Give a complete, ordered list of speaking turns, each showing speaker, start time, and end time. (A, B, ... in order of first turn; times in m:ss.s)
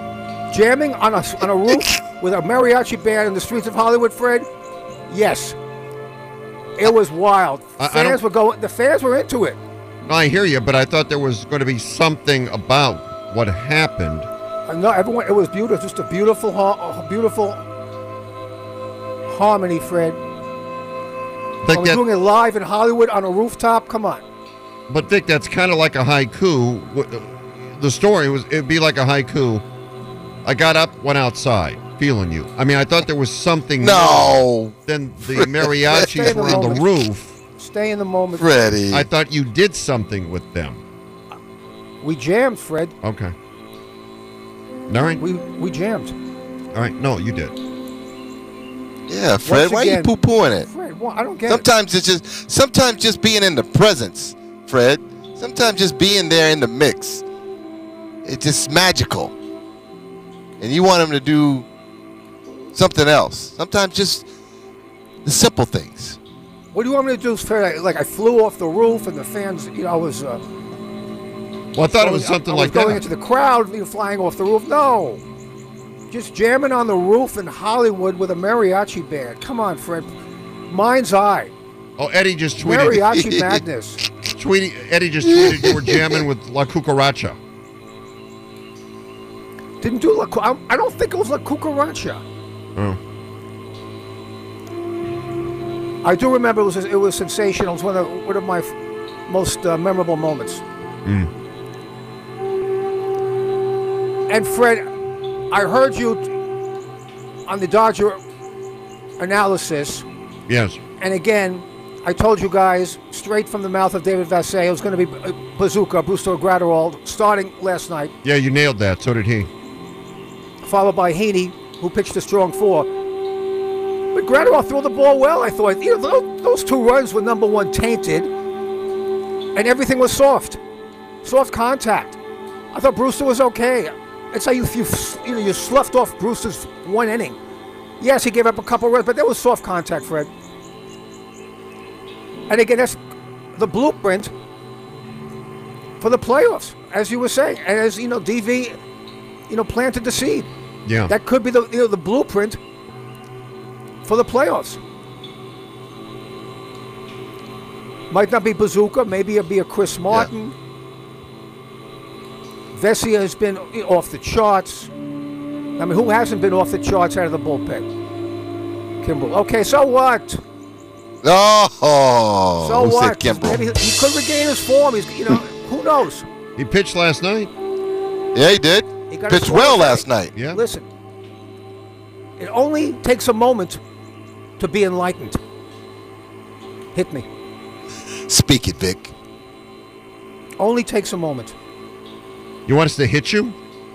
0:00.5-0:04.5 A
0:05.1-0:05.6 A
0:06.8-0:09.6 A
0:07.8-0:08.2 B
0:10.1-0:14.3 B
0:14.7-0:17.6 A
0:19.3-0:20.2 A
0:21.6-0:22.0 B
0:21.7-0:24.2 A
0:24.9-0:29.6 B
0:30.4-0:37.3 B
0:33.8-0:34.8 C
0:35.3-0:36.5 C
0:35.9-0:37.0 A
0:37.6-0:38.5 A
0:38.4-0:39.1 C
0:38.9-0:40.8 B
0:42.0-0:43.0 A
0:43.0-0:43.3 B
0:44.9-0:45.2 B
0:45.2-0:46.1 A
0:46.7-0:47.5 B
0:49.1-0:50.7 C
0:49.4-0:50.1 A
0:50.6-0:51.7 A
0:51.5-0:57.2 C
0:58.2-0:59.3 C
1:00.6-1:01.7 C
1:02.7-1:04.3 C
1:05.2-1:06.2 C
1:06.7-1:10.4 A
1:11.7-1:13.0 B
1:12.0-1:15.2 A
1:16.1-1:20.1 A
1:20.7-1:21.5 A
1:22.0-1:23.2 B
1:22.6-1:24.0 A
1:24.3-1:27.4 B
1:25.3-1:26.2 C
1:29.8-1:32.2 A
1:36.0-1:38.7 A
1:39.3-1:40.6 A
1:41.0-1:41.3 B
1:44.3-1:44.9 A
1:45.5-1:46.3 A
1:47.5-1:48.2 A
1:49.2-1:50.0 A
1:50.5-1:50.8 B
1:51.0-1:58.1 A
1:58.2-1:59.5 B
2:00.6-2:02.9 A
2:04.1-2:08.3 A
2:09.5-2:10.6 A
2:11.2-2:12.2 A
2:12.7-2:17.4 A
2:18.0-2:20.3 A
2:22.5-2:23.0 A
2:23.5-2:24.3 A
2:26.0-2:28.8 A
2:29.5-2:30.5 A
2:30.8-2:31.1 B
2:31.1-2:32.6 A
2:34.0-2:34.8 A
2:38.1-2:40.5 A
2:42.7-2:44.9 A
2:45.8-2:47.9 A
2:49.0-2:50.4 A
2:51.2-2:53.8 C
2:52.6-2:56.2 A
2:56.6-2:57.5 B
2:58.3-3:00.3 C
2:59.1-3:00.9 A
3:00.4-3:00.6 B
3:02.4-3:03.8 A
3:04.6-3:05.4 A
3:06.9-3:07.3 A
3:08.3-3:09.1 C
3:10.6-3:11.5 A
3:12.6-3:13.6 B